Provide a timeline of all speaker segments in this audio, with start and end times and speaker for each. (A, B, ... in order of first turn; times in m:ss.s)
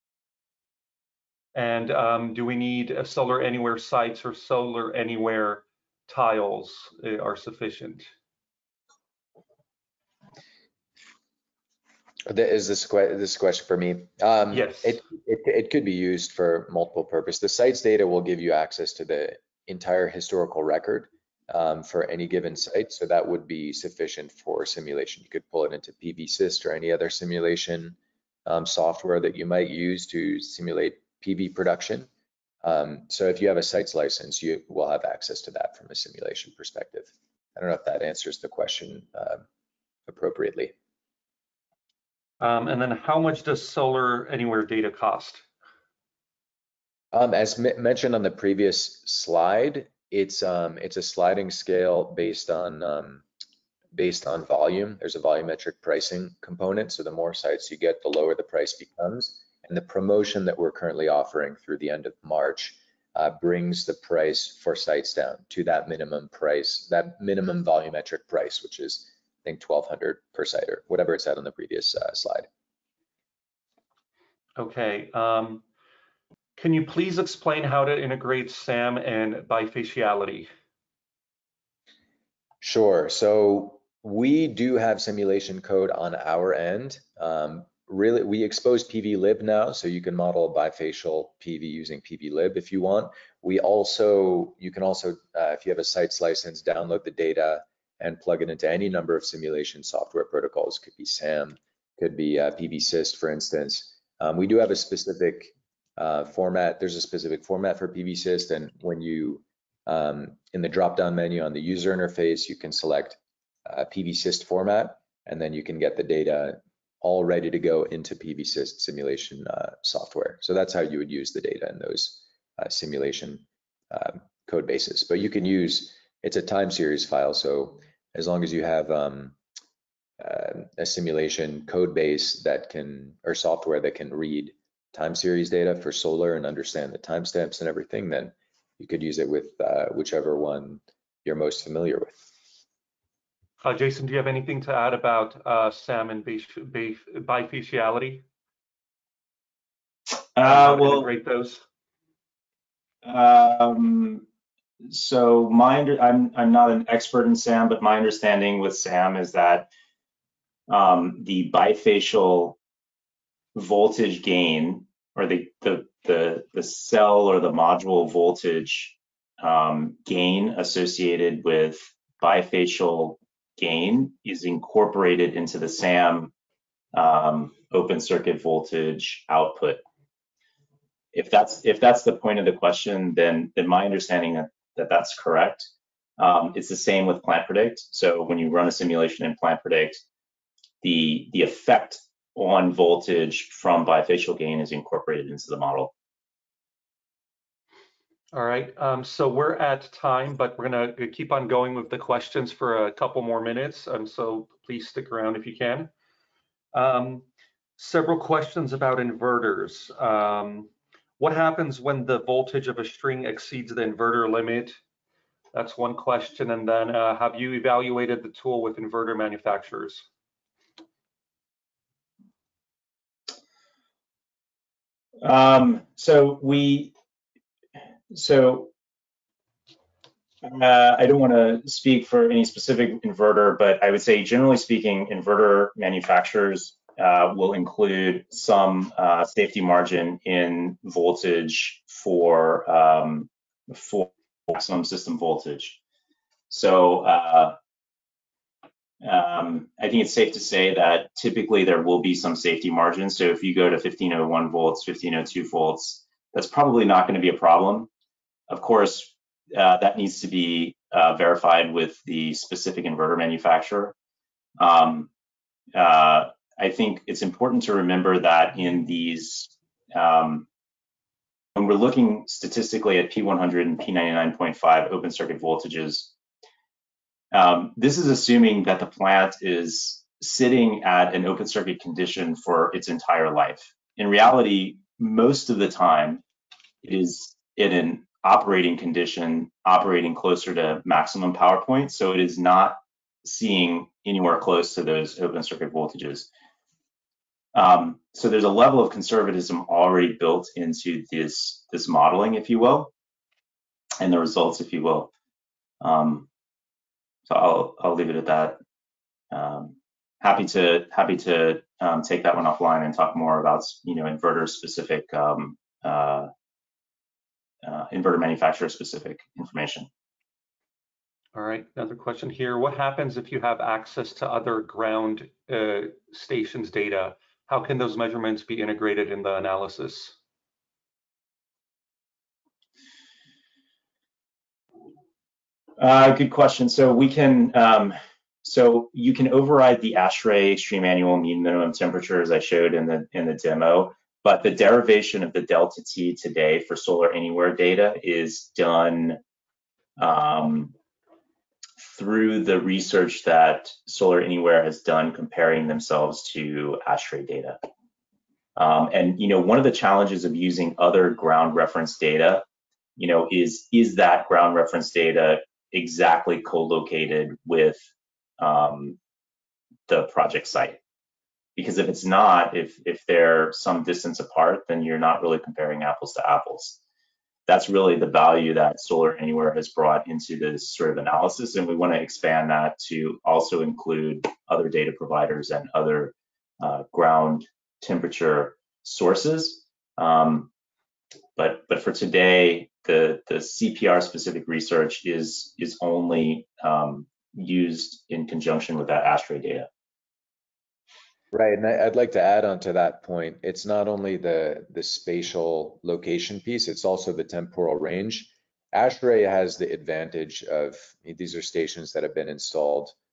0:01.5-0:08.1 A
0:12.3-0:32.1 B
0:14.5-0:15.0 A
0:32.6-0:39.4 B
0:40.1-0:40.7 B
0:42.4-0:45.4 A
0:47.1-0:53.2 B
0:53.9-1:12.5 B
1:14.6-1:15.6 A
1:16.6-1:20.5 A
1:22.6-2:09.4 B
2:10.2-2:22.3 B
2:23.6-2:28.2 A
2:30.4-2:31.1 C
2:30.4-2:31.6 A
2:33.0-2:34.2 C
2:34.9-2:39.7 C
2:40.7-2:42.6 C
2:43.5-2:56.3 C
2:56.9-2:59.8 C
3:01.1-3:10.0 C
3:10.8-3:15.9 C
3:18.3-3:25.9 A
3:26.7-3:34.8 A
3:35.5-3:40.0 A
3:45.2-3:46.9 C
3:48.1-3:48.7 C
3:50.4-4:05.8 C
4:06.5-4:07.6 C
4:09.0-4:17.9 C
4:18.5-4:23.9 C
4:24.6-4:25.1 C
4:25.7-4:30.4 C
4:31.6-4:36.1 C
4:37.3-4:46.2 C
4:46.8-4:56.3 C
4:57.5-5:02.9 C
5:04.0-5:05.1 C
5:05.8-5:06.3 C
5:07.3-5:08.6 C
5:09.3-5:16.3 C
5:17.6-5:19.9 C
5:21.3-5:30.1 A
5:35.8-5:49.2 C
5:50.0-5:50.7 C
5:51.8-5:57.6 C
5:58.6-6:02.4 C
6:03.0-6:07.8 C
6:08.4-6:09.0 C
6:09.9-6:10.8 C
6:11.6-6:16.8 C
6:17.5-6:30.5 C
6:31.4-6:39.7 C
6:41.3-6:52.9 B